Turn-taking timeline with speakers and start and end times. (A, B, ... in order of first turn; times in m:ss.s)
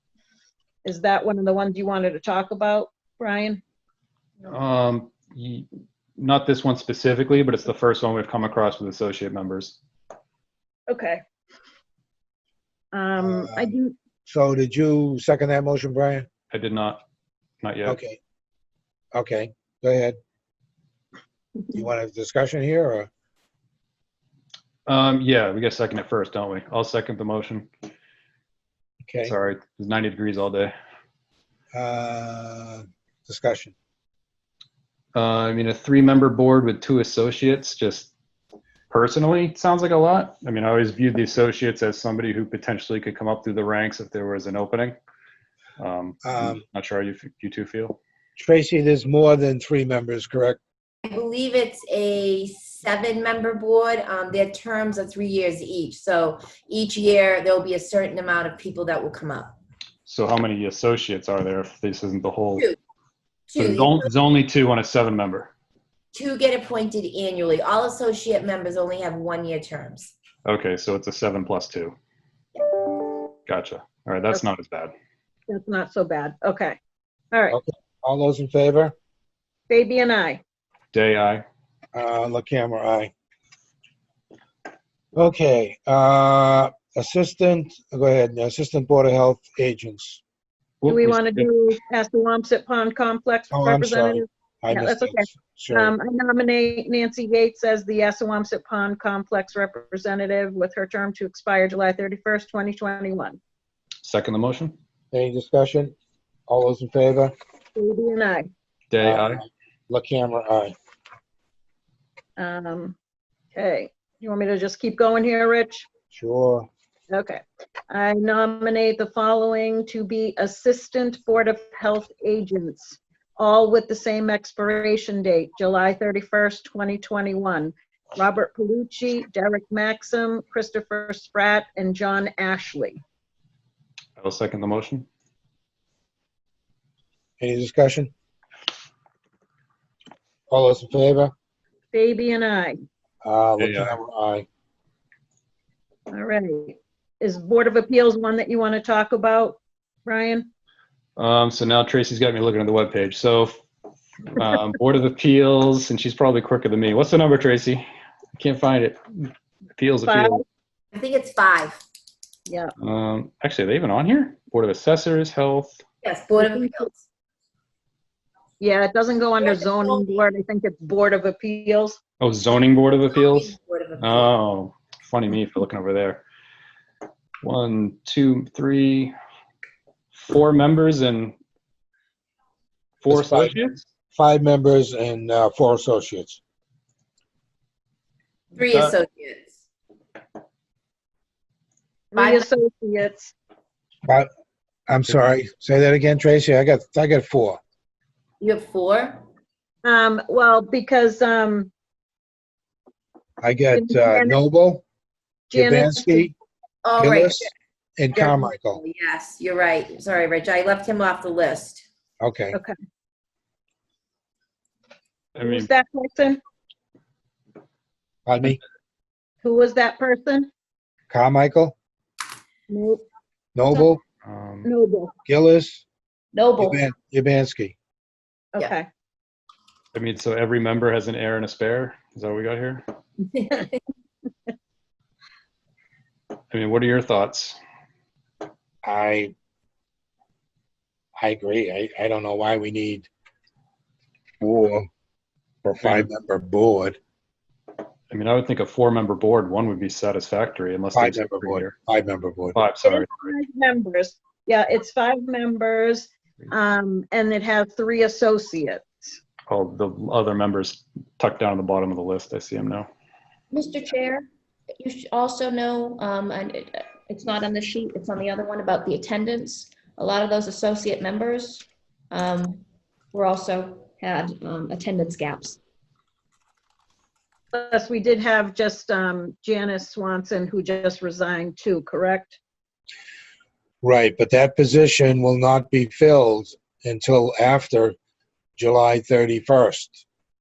0:00.8-0:03.6 A
0:04.4-0:09.8 B
0:10.9-0:11.2 A
0:12.9-0:13.9 A
0:13.2-0:13.7 C
0:14.2-0:16.3 C
0:16.5-0:17.0 B
0:17.6-0:18.0 B
0:17.8-0:18.2 C
0:19.1-0:20.2 C
0:21.7-0:23.1 C
0:24.8-0:27.7 B
0:29.0-0:29.3 C
0:29.2-0:30.7 B
0:31.7-0:33.7 C
0:35.1-0:38.1 B
0:38.9-0:45.0 B
0:45.8-0:48.0 B
0:46.2-0:46.6 C
0:48.4-0:50.6 C
0:51.0-0:59.6 D
1:00.0-1:02.7 B
1:03.5-1:04.0 D
1:03.6-1:05.5 B
1:06.1-1:10.1 D
1:10.4-1:11.9 B
1:13.5-1:14.9 B
1:15.5-1:16.8 A
1:17.3-1:17.6 A
1:17.5-1:18.9 C
1:19.7-1:20.4 A
1:20.9-1:21.4 B
1:21.9-1:23.1 C
1:25.1-1:30.2 C
1:30.8-1:31.5 B
1:30.9-1:43.4 A
1:33.5-1:35.9 C
1:44.0-1:44.8 B
1:45.1-1:45.9 C
1:46.5-1:47.3 C
1:47.7-1:48.5 A
1:48.9-1:49.4 B
1:49.0-1:50.7 C
1:52.4-1:53.0 A
1:53.5-1:55.8 A
1:56.1-1:56.7 C
1:57.1-2:13.0 A
2:14.2-2:15.1 B
2:17.4-2:18.1 C
2:20.5-2:21.3 C
2:21.9-2:22.8 A
2:23.2-2:24.4 C
2:23.6-2:24.0 B
2:26.1-2:30.5 A
2:31.2-2:33.6 B
2:34.2-2:40.4 B
2:40.0-2:40.4 A
2:40.9-2:41.8 D
2:42.4-2:42.7 A
2:42.8-2:45.8 B
2:46.0-2:47.0 D
2:48.6-2:52.0 A
2:49.4-2:50.2 D
2:52.2-2:56.2 B
2:53.1-2:54.3 D
2:57.4-2:59.1 B
3:00.1-3:01.3 B
3:03.0-3:03.8 B
3:03.1-3:03.6 C
3:04.1-3:06.4 C
3:08.5-3:09.5 D
3:12.1-3:13.3 A
3:12.2-3:12.5 D
3:14.9-3:17.6 C
3:18.4-3:19.2 D
3:19.8-3:21.7 A
3:23.4-3:24.8 C
3:23.7-3:24.3 A
3:25.5-3:26.3 A
3:25.5-3:26.3 C
3:26.8-3:27.5 D
3:27.0-3:28.8 C
3:28.2-3:28.5 A
3:28.8-3:31.8 D
3:32.2-3:32.6 C
3:35.3-3:35.7 B
3:35.4-3:36.4 A
3:38.2-3:38.6 C
3:39.4-3:40.5 A
3:41.1-3:41.7 C
3:42.7-3:43.0 A
3:43.5-3:44.0 C
3:44.2-3:44.7 B
3:44.6-3:45.1 A
3:45.2-3:45.8 C
3:46.3-3:46.8 E
3:46.6-3:47.7 C
3:48.5-3:48.8 A
3:49.9-3:52.8 B
3:56.5-3:57.6 B
3:58.8-3:59.3 C
4:01.2-4:03.1 C
4:04.4-4:04.9 C
4:05.6-4:07.0 C
4:05.8-4:06.1 B
4:08.1-4:11.7 B
4:10.9-4:12.6 C
4:12.5-4:13.3 B
4:12.8-4:19.2 A
4:19.5-4:22.9 B
4:23.5-4:24.3 E
4:24.8-4:35.6 E
4:37.5-4:42.4 A
4:43.8-4:47.9 C
4:48.6-4:50.0 C